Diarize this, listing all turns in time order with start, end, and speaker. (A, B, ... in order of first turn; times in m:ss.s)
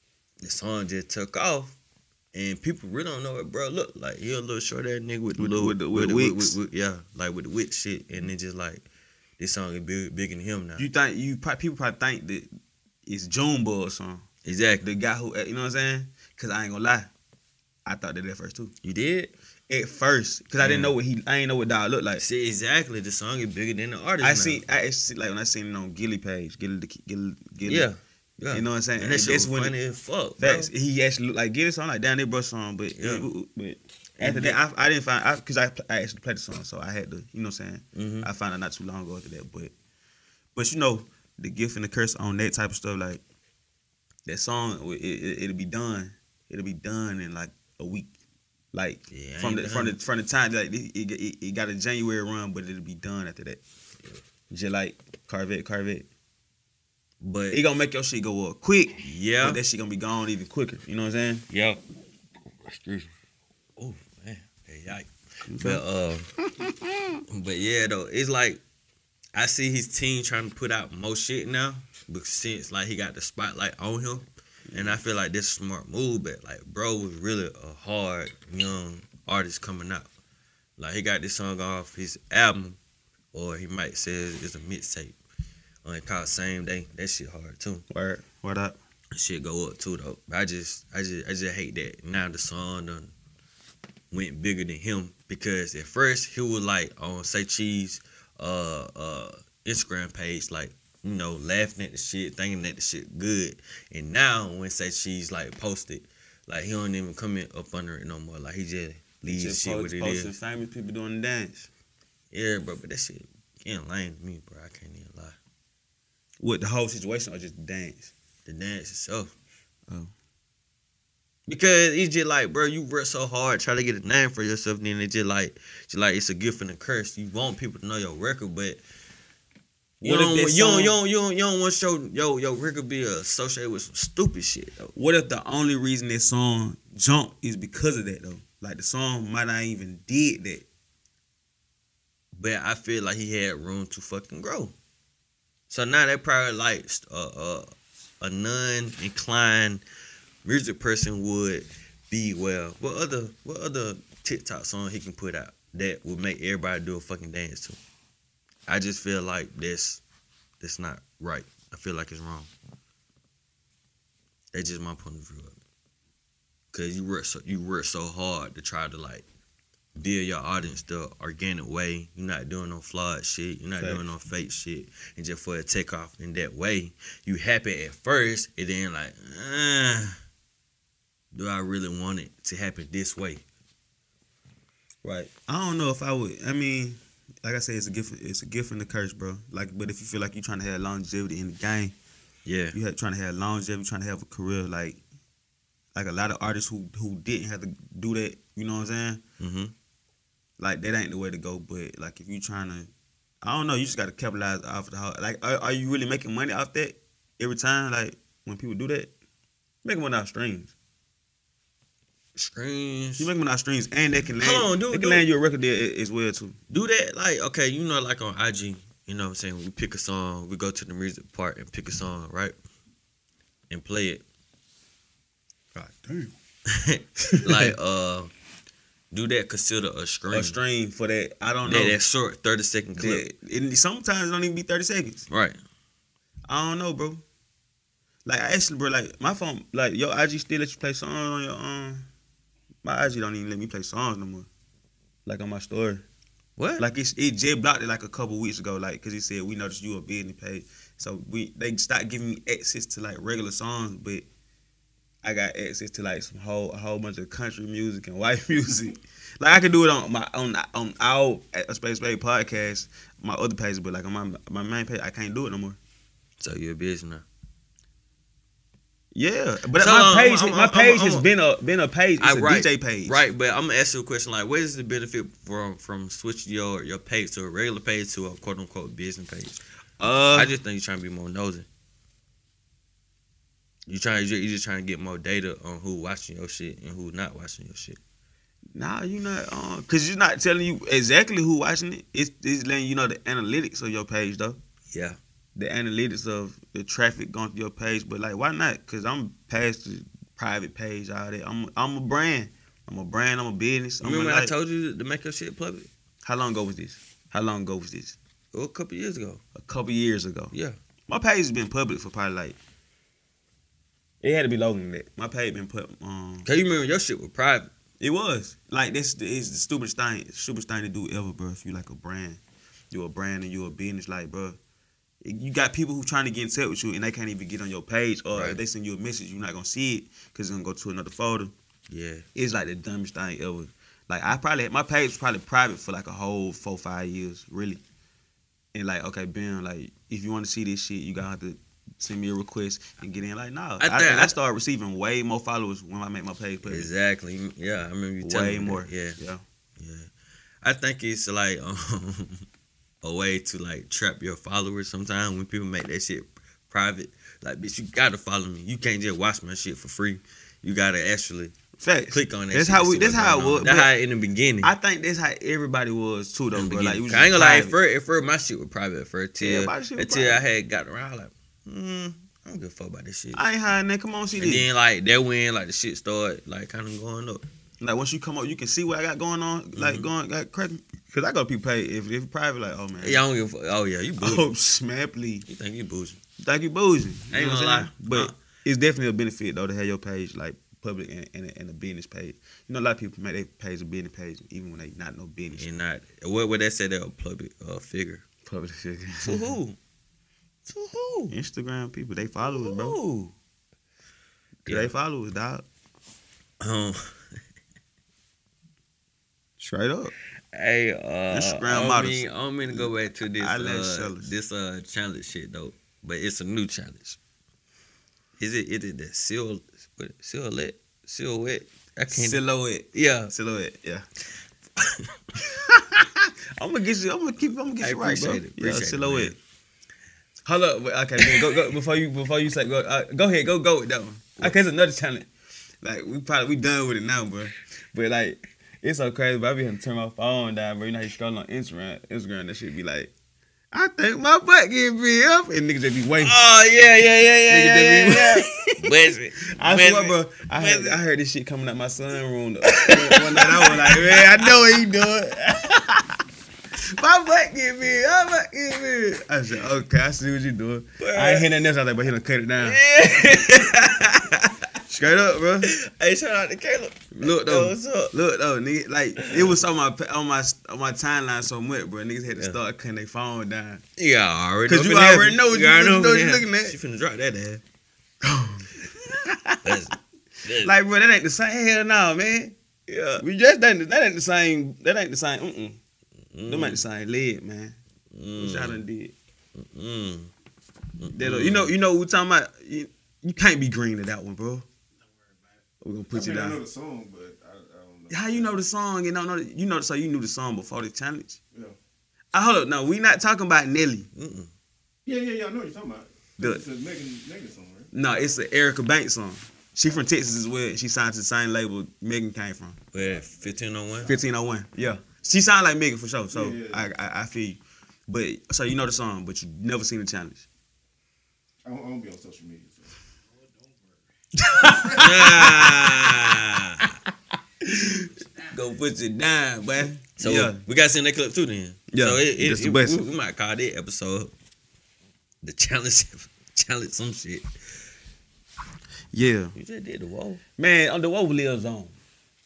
0:00.4-0:01.7 A
0:02.3-0:08.8 A
0:05.4-0:06.6 B
0:09.4-0:10.8 A
0:10.8-0:12.5 B
0:13.0-0:14.2 B
0:14.4-0:14.9 A
0:14.8-0:17.1 B
0:17.8-0:18.7 B
0:18.8-0:19.3 A
0:19.7-0:22.2 B
0:20.6-0:20.9 A
0:22.2-0:24.6 A
0:24.2-0:27.9 B
0:27.6-0:30.7 A
0:28.5-0:29.8 B
0:30.4-0:39.7 B
0:33.0-0:33.3 A
0:34.2-0:34.6 A
0:37.9-0:38.3 A
0:40.5-0:43.2 B
0:44.2-0:48.1 B
0:48.7-0:53.6 B
0:49.1-0:50.0 A
0:54.5-0:56.1 B
0:57.2-0:57.6 A
0:57.5-1:01.4 B
0:59.0-0:59.6 A
1:01.5-1:01.8 A
1:02.6-1:03.1 A
1:03.8-1:06.3 A
1:05.4-1:05.8 B
1:07.3-1:08.6 A
1:09.3-1:20.1 A
1:14.7-1:15.0 B
1:20.8-1:22.8 A
1:23.3-1:25.2 A
1:25.8-1:27.8 A
1:27.9-1:28.8 B
1:29.1-1:33.1 A
1:34.1-1:50.3 A
1:49.2-1:51.7 B
1:52.3-1:55.4 A
1:56.4-1:58.1 B
1:58.4-1:59.3 A
2:01.5-2:08.8 A
2:10.0-2:14.9 A
2:10.0-2:11.0 B
2:14.9-2:20.6 B
2:22.3-2:24.7 A
2:25.7-2:29.8 A
2:30.4-2:37.8 A
2:38.7-2:40.0 A
2:40.6-2:42.5 A
2:44.5-2:45.6 A
2:46.7-2:49.2 A
2:49.9-3:00.1 A
3:01.3-3:03.4 A
3:05.0-3:11.9 B
3:12.4-3:12.8 A
3:12.7-3:15.0 B
3:15.9-3:19.2 B
3:19.4-3:19.7 A
3:20.6-3:22.9 B
3:23.4-3:29.1 B
3:29.8-3:30.7 B
3:32.4-3:33.3 A
3:33.2-3:36.6 B
3:34.4-3:35.3 A
3:36.7-3:42.5 A
3:43.7-3:44.2 A
3:45.8-3:46.3 B
3:46.7-3:48.3 A
3:47.3-3:47.7 B
3:49.1-3:50.6 A
3:50.3-3:52.0 B
3:51.6-3:53.2 A
3:53.0-3:55.2 B
3:55.3-3:55.6 A
3:56.5-3:57.2 B
3:58.2-4:02.0 B
4:02.8-4:04.5 B
4:05.2-4:06.0 B
4:06.6-4:06.9 A
4:06.8-4:14.2 B
4:15.2-4:25.8 B
4:26.4-4:27.2 A
4:29.1-4:33.2 B
4:29.8-4:31.3 A
4:32.2-4:39.6 A
4:40.0-4:40.5 B
4:40.3-4:41.6 A
4:43.9-4:48.0 A
4:48.7-4:54.6 B
4:54.9-4:55.2 A
4:55.5-5:04.5 B
5:04.0-5:05.9 A
5:06.2-5:08.2 B
5:08.5-5:09.4 A
5:09.5-5:10.5 B
5:10.5-5:10.8 A
5:11.1-5:12.6 B
5:14.2-5:16.5 B
5:16.4-5:17.7 A
5:18.0-5:22.4 B
5:22.9-5:24.6 B
5:25.2-5:31.5 B
5:28.3-5:28.6 A
5:31.9-5:32.2 A
5:32.3-5:37.8 B
5:38.7-5:46.9 B
5:43.8-5:44.3 A
5:46.6-5:49.2 A
5:48.2-5:49.4 B
5:49.8-5:50.1 A
5:50.6-5:52.4 A
5:53.0-6:01.5 A
6:01.8-6:03.9 B
6:02.1-6:04.7 A
6:04.6-6:07.7 B
6:06.5-6:13.4 A
6:09.4-6:10.4 B
6:13.3-6:14.6 B
6:14.4-6:17.4 A
6:17.8-6:23.2 B
6:19.7-6:20.1 A
6:23.0-6:24.4 A
6:24.2-6:25.4 B
6:25.5-6:26.2 A
6:26.4-6:35.6 B
6:27.3-6:28.3 A
6:35.6-6:38.2 A
6:38.4-6:39.5 B
6:39.2-6:39.8 A
6:40.6-6:41.3 A
6:41.3-6:43.0 B
6:42.4-6:43.3 A
6:44.6-6:44.9 A
6:44.6-6:45.6 B
6:46.6-6:47.2 A
6:49.6-6:50.1 B
6:50.5-6:57.2 A
6:51.3-6:54.3 B
6:58.4-7:03.3 A
7:02.1-7:04.0 B
7:04.8-7:05.1 A
7:05.3-7:09.3 B
7:07.8-7:09.4 A
7:10.4-7:15.3 B
7:15.8-7:23.1 B
7:23.7-7:26.4 B
7:26.2-7:31.0 A
7:27.5-7:28.7 B
7:29.5-7:36.2 B
7:32.6-7:34.4 A
7:36.8-7:42.8 B
7:41.0-7:41.5 A
7:42.6-7:44.5 A
7:44.9-7:45.7 B
7:45.6-7:48.1 A
7:47.1-7:53.8 B
7:49.2-7:49.5 A
7:54.0-7:57.6 A
7:54.7-7:56.8 B
7:58.2-7:59.7 B
7:59.6-8:00.7 A
8:00.6-8:02.6 B
8:02.9-8:03.2 A
8:03.2-8:05.8 B
8:06.3-8:06.8 A
8:06.5-8:07.8 B
8:08.1-8:08.8 A
8:08.4-8:09.1 B
8:09.5-8:10.3 A
8:11.0-8:11.7 A
8:11.1-8:14.6 B
8:15.8-8:16.6 B
8:16.1-8:18.6 C
8:18.1-8:21.4 B
8:22.3-8:24.1 B
8:24.1-8:24.5 A
8:25.0-8:27.9 C
8:27.9-8:32.8 B
8:32.9-8:34.1 A
8:34.0-8:40.4 B
8:36.3-8:36.9 C
8:41.6-8:43.0 C
8:44.3-8:46.2 B
8:44.9-8:47.0 A
8:47.6-8:50.6 B
8:50.2-8:54.3 A
8:51.9-8:53.0 B
8:55.4-8:57.5 A
8:59.1-8:59.5 B
8:59.5-9:00.4 A
9:00.6-9:01.9 B